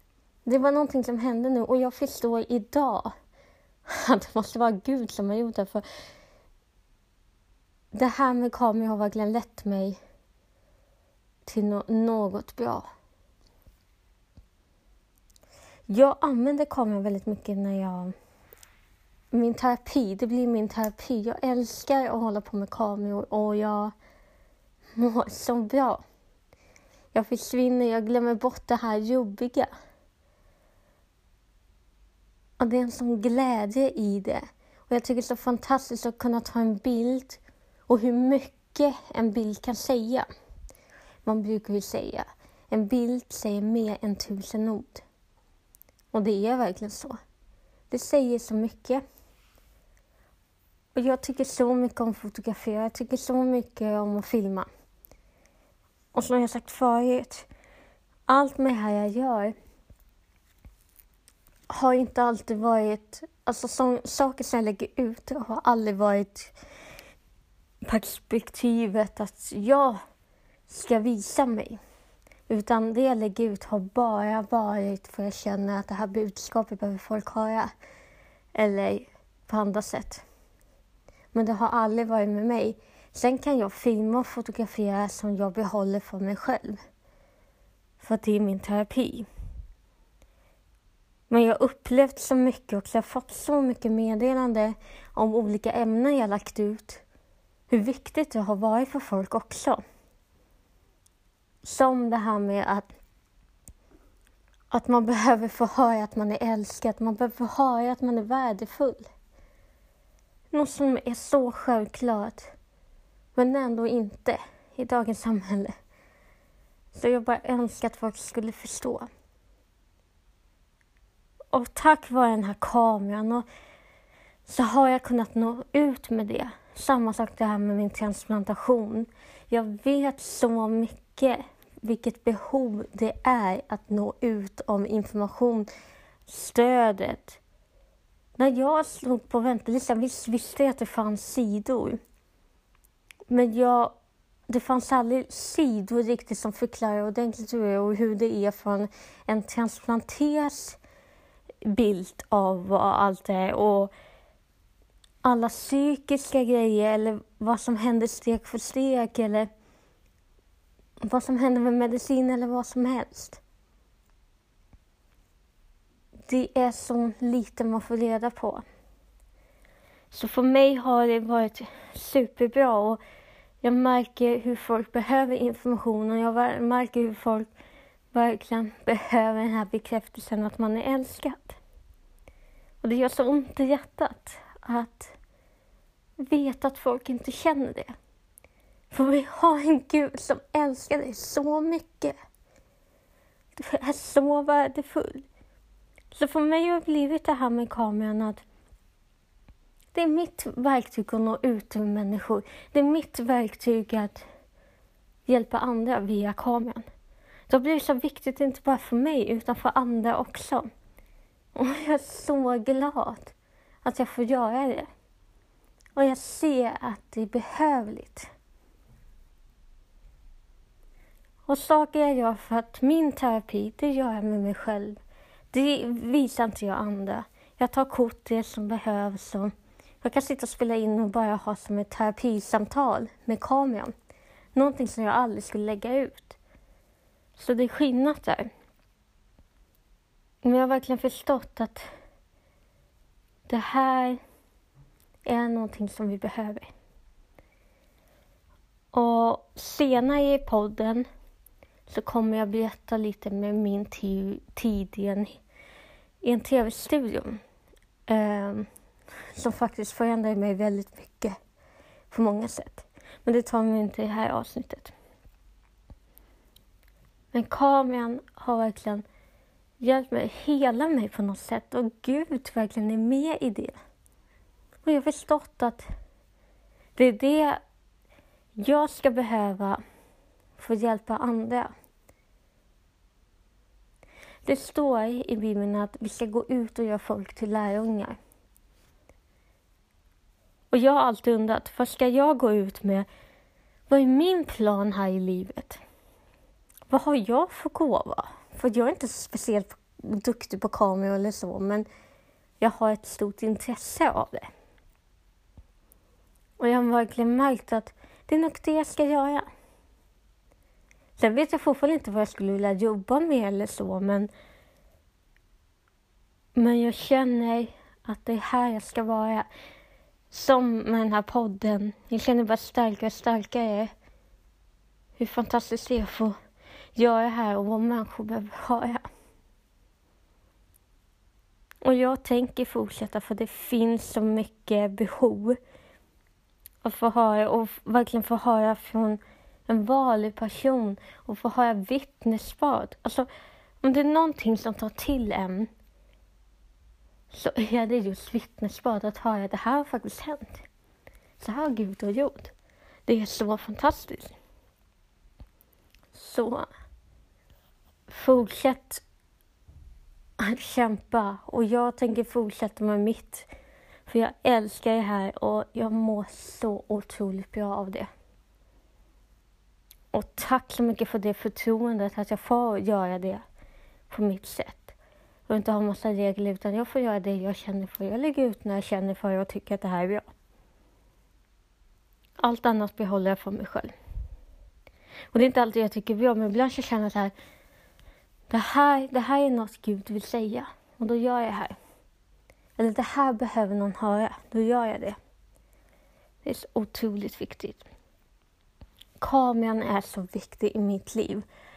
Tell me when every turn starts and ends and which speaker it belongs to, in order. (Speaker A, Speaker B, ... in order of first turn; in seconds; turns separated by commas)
Speaker A: 0.5-3.1, Speaker A: 3.9-5.9, Speaker A: 7.9-10.0, Speaker A: 11.4-12.9, Speaker A: 15.9-18.1, Speaker A: 19.3-23.9, Speaker A: 25.0-26.0, Speaker A: 27.1-29.7, Speaker A: 32.6-40.3, Speaker A: 41.2-45.0, Speaker A: 46.1-47.2, Speaker A: 47.9-49.0, Speaker A: 51.0-54.7, Speaker A: 56.1-57.5, Speaker A: 58.3-59.5, Speaker A: 61.7-66.5, Speaker A: 67.8-70.0, Speaker A: 70.7-71.8, Speaker A: 72.5-77.7, Speaker A: 78.5-80.2, Speaker A: 81.3-86.8, Speaker A: 88.0-89.3, Speaker A: 91.3-97.0, Speaker A: 97.7-99.8, Speaker A: 101.6-102.9, Speaker A: 104.7-109.1, Speaker A: 110.5-112.5, Speaker A: 113.4-115.7, Speaker A: 116.9-119.1, Speaker A: 121.5-123.5, Speaker A: 124.5-135.7, Speaker A: 136.3-137.4, Speaker A: 138.4-142.0, Speaker A: 143.3-143.9, Speaker A: 144.5-150.8, Speaker A: 151.7-153.9, Speaker A: 155.2-159.5, Speaker A: 161.0-163.4, Speaker A: 166.3-168.6, Speaker A: 170.1-173.0, Speaker A: 173.6-177.5, Speaker A: 178.1-181.6, Speaker A: 182.8-185.1, Speaker A: 186.2-187.9, Speaker A: 188.9-192.2, Speaker A: 193.6-195.2, Speaker A: 196.1-198.4, Speaker A: 199.9-204.2, Speaker A: 205.3-206.9, Speaker A: 207.5-210.7, Speaker A: 211.6-214.9, Speaker A: 215.9-218.3, Speaker A: 221.5-225.0, Speaker A: 225.5-233.9, Speaker A: 234.6-236.4, Speaker A: 237.4-238.5, Speaker A: 240.4-241.9, Speaker A: 243.5-244.2, Speaker A: 245.2-246.7, Speaker A: 248.9-251.1, Speaker A: 251.9-255.4, Speaker A: 256.2-257.4, Speaker A: 258.1-258.7, Speaker A: 259.3-261.4, Speaker A: 262.1-264.9, Speaker A: 267.3-269.0, Speaker A: 269.8-273.8, Speaker A: 274.8-275.9, Speaker A: 276.9-277.6, Speaker A: 278.6-279.8, Speaker A: 280.6-281.7, Speaker A: 284.4-288.2, Speaker A: 290.7-293.1, Speaker A: 293.9-295.8, Speaker A: 296.9-301.9, Speaker A: 302.6-304.5, Speaker A: 306.6-309.4, Speaker A: 311.2-314.3, Speaker A: 316.6-319.5, Speaker A: 320.3-323.9, Speaker A: 325.2-326.3, Speaker A: 326.9-329.1, Speaker A: 331.8-335.6, Speaker A: 336.8-343.3, Speaker A: 343.8-345.7, Speaker A: 347.3-350.7, Speaker A: 351.4-352.5, Speaker A: 353.1-354.3, Speaker A: 356.1-356.7, Speaker A: 358.1-359.0, Speaker A: 360.4-363.5, Speaker A: 364.1-368.1, Speaker A: 370.1-373.4, Speaker A: 374.1-375.0, Speaker A: 375.5-380.3, Speaker A: 382.4-383.9, Speaker A: 385.3-387.3, Speaker A: 388.5-391.8, Speaker A: 392.8-395.2, Speaker A: 396.4-397.9, Speaker A: 399.2-401.4